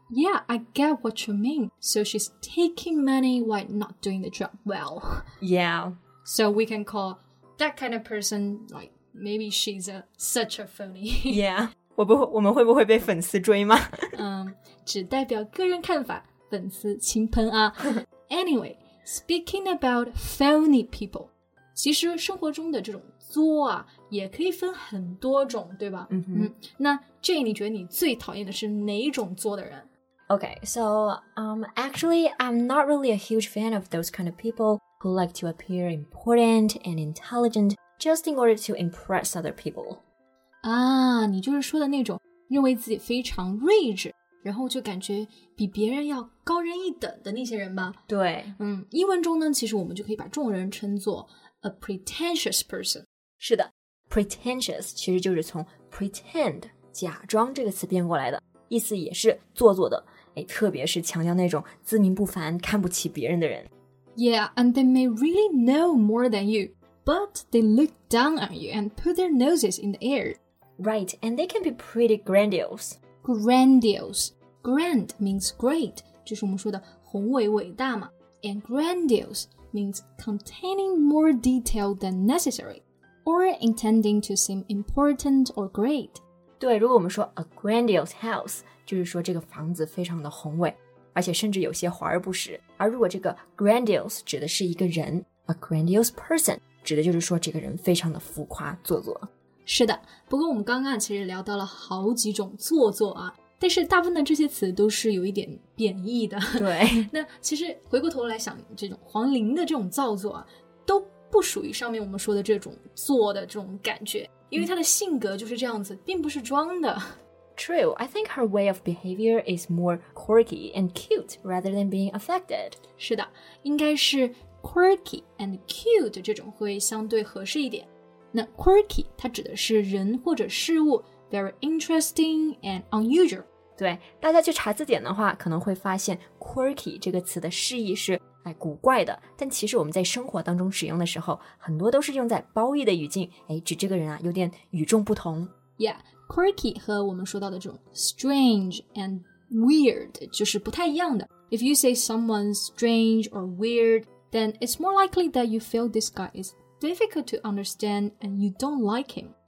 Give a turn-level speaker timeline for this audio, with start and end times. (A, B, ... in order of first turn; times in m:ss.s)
0:00.1-0:05.3 A
0:05.4-0:06.0 B
0:06.2-0:11.4 A
0:11.3-0:14.2 B
0:14.1-0:29.9 A
0:26.1-0:26.5 B
0:30.3-0:40.0 B
0:40.6-0:48.0 A
0:48.1-0:48.6 B
0:48.6-0:53.0 A
0:53.4-1:03.7 B
1:04.2-1:10.4 A
1:10.8-1:13.0 B
1:13.2-1:26.2 A
1:26.6-1:39.3 B
1:39.7-1:57.2 A
1:46.6-1:47.1 B
1:57.6-2:02.8 B
2:03.0-2:13.4 A
2:13.8-2:25.5 B
2:25.8-2:39.3 A